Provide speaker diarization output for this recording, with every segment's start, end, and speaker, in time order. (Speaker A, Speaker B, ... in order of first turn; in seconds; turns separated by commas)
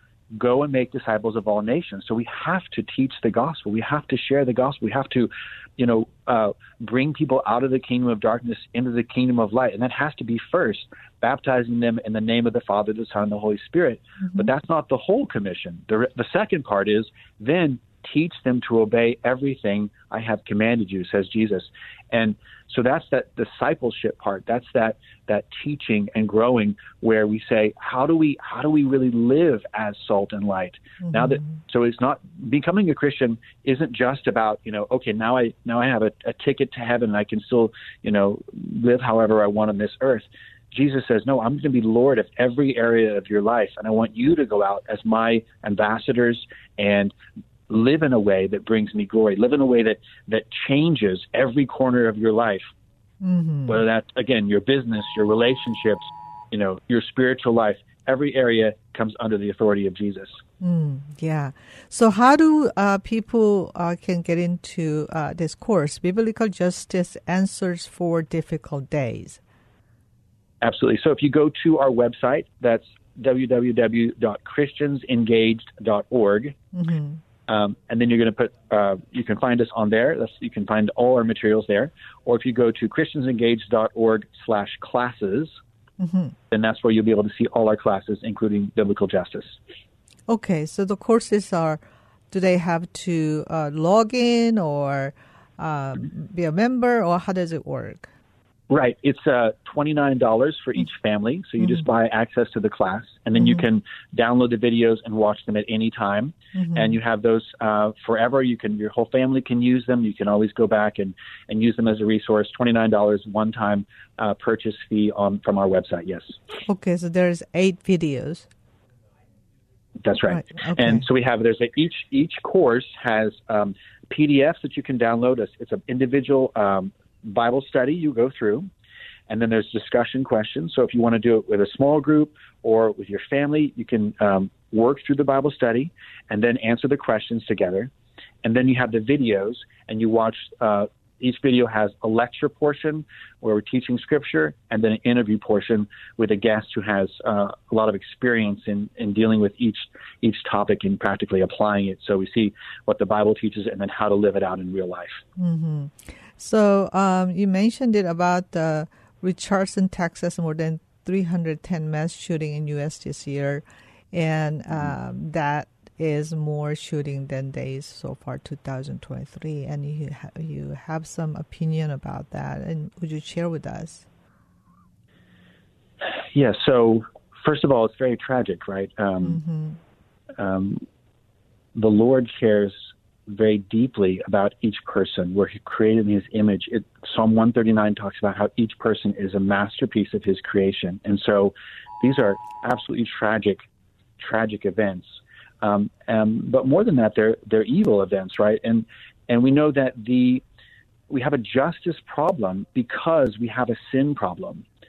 Speaker A: 0.3-47.1, Speaker A: 47.7-52.7, Speaker B: 53.2-53.8, Speaker A: 53.7-60.4, Speaker B: 60.6-69.4, Speaker A: 70.6-76.6, Speaker B: 76.7-77.2, Speaker A: 77.5-85.6, Speaker B: 86.0-86.3, Speaker A: 86.5-89.6, Speaker B: 90.3-98.1, Speaker A: 98.7-116.3, Speaker B: 116.7-118.5, Speaker A: 120.0-128.7, Speaker B: 120.3-121.0, Speaker A: 129.3-137.9, Speaker A: 138.4-155.2, Speaker B: 155.4-174.1, Speaker A: 176.0-179.4, Speaker B: 179.2-179.8, Speaker A: 180.4-180.8, Speaker A: 181.8-193.6, Speaker A: 194.2-200.4, Speaker A: 201.1-204.7